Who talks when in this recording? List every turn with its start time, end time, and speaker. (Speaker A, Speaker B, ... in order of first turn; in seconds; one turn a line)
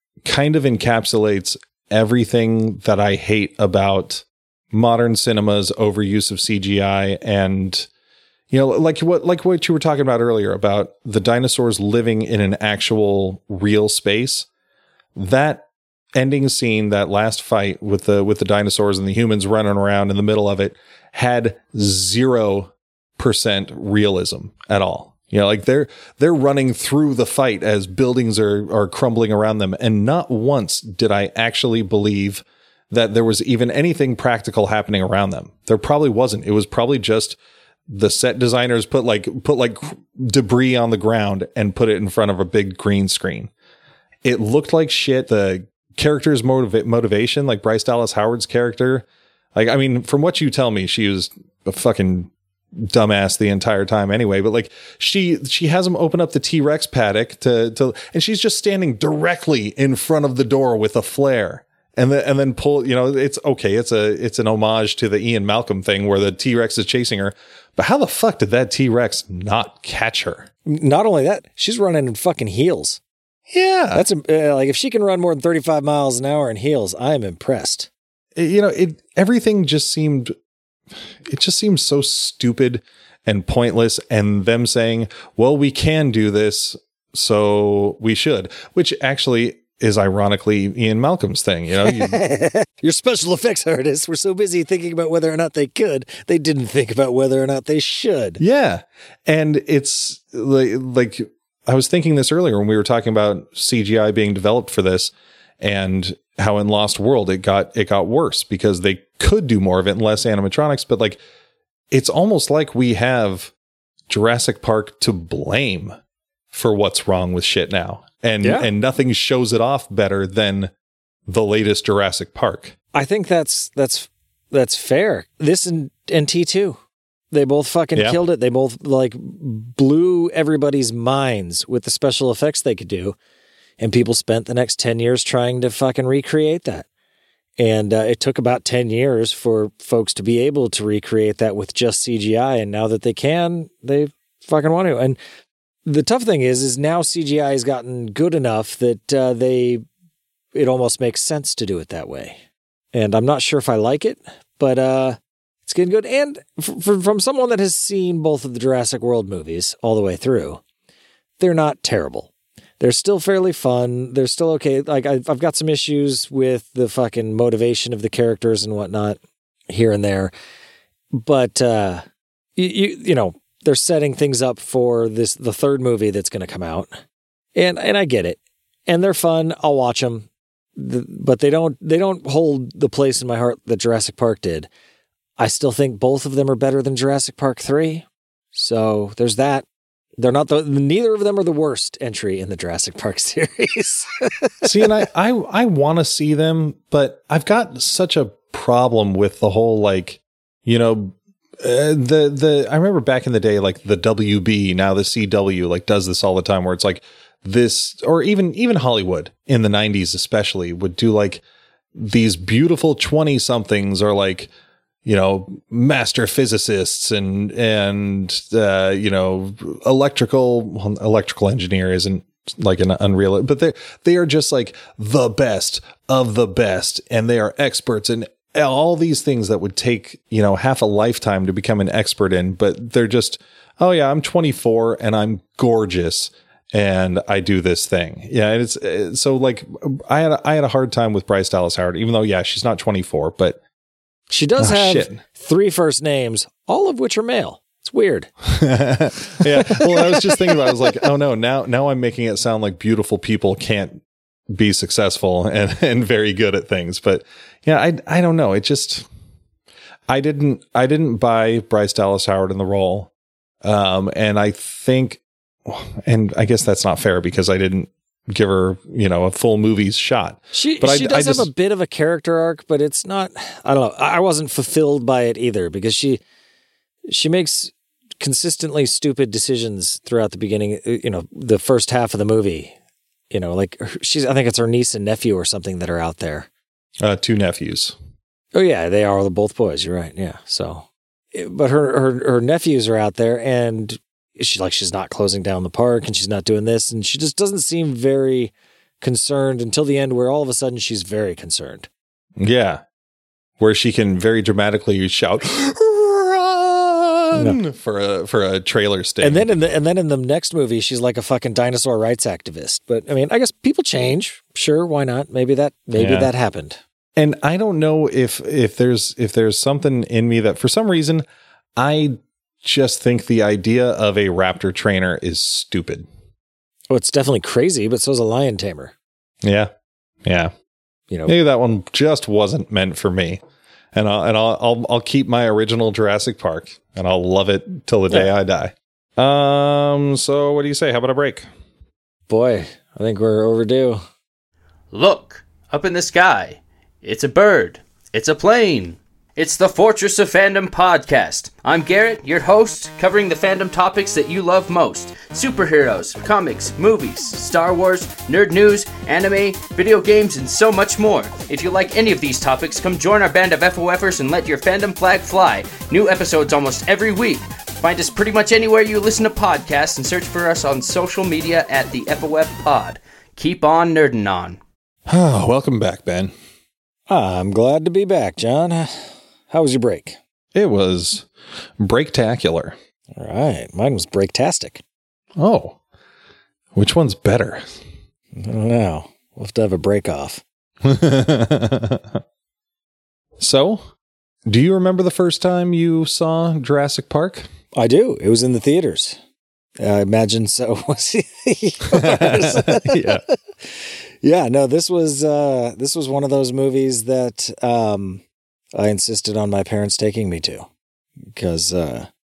Speaker A: 0.2-7.9
Speaker A: 8.5-14.5
Speaker A: 15.2-15.6
Speaker A: 16.2-43.5
Speaker A: 44.2-70.5
Speaker B: 70.7-73.0
Speaker A: 73.5-74.0
Speaker B: 73.9-77.9
Speaker A: 78.4-80.3
Speaker A: 81.2-92.2
Speaker B: 91.8-98.4
Speaker A: 98.4-111.2
Speaker A: 111.9-113.5
Speaker A: 114.1-116.0
Speaker A: 116.5-120.7
Speaker B: 118.4-118.7
Speaker A: 121.3-122.7
Speaker B: 122.9-126.8
Speaker B: 127.3-133.2
Speaker B: 133.8-136.9
Speaker B: 137.6-145.2
Speaker B: 145.9-149.8
Speaker B: 150.5-152.4
Speaker B: 152.9-160.6
Speaker B: 161.4-169.2
Speaker B: 169.7-170.3
Speaker B: 171.1-172.1
Speaker B: 172.6-176.9
Speaker B: 177.6-184.7
Speaker B: 185.4-189.7
Speaker B: 190.2-194.1
Speaker A: 194.6-211.4
Speaker A: 211.9-214.5
Speaker A: 215.1-243.6
Speaker B: 244.3-248.3
Speaker A: 244.6-245.2
Speaker A: 248.5-259.1
Speaker B: 249.4-250.7
Speaker A: 260.1-263.1
Speaker A: 263.6-271.5
Speaker B: 270.5-276.2
Speaker B: 277.1-282.8
Speaker B: 283.3-286.5
Speaker A: 287.0-288.0
Speaker B: 288.5-301.9
Speaker A: 302.4-302.8
Speaker A: 303.6-309.5
Speaker B: 307.3-307.6
Speaker B: 309.2-316.8
Speaker A: 316.0-316.3
Speaker A: 317.2-321.2
Speaker A: 321.8-326.1
Speaker B: 326.9-328.9
Speaker A: 329.4-329.7
Speaker A: 330.2-330.5
Speaker B: 331.1-331.4
Speaker A: 331.3-333.4
Speaker A: 333.9-341.5
Speaker B: 342.3-344.0
Speaker C: 344.9-374.6
Speaker A: 375.1-376.3
Speaker B: 377.1-380.2
Speaker A: 380.5-381.3
Speaker A: 381.8-382.8
Speaker B: 383.2-384.8
Speaker A: 385.4-385.8
Speaker A: 386.8-387.6
Speaker B: 388.4-390.4
Speaker A: 390.8-392.2
Speaker A: 393.4-393.8
Speaker A: 394.5-397.5
Speaker B: 397.8-399.2
Speaker B: 399.8-403.1
Speaker A: 401.9-403.2
Speaker B: 403.6-408.2
Speaker B: 408.8-410.7
Speaker B: 411.4-412.1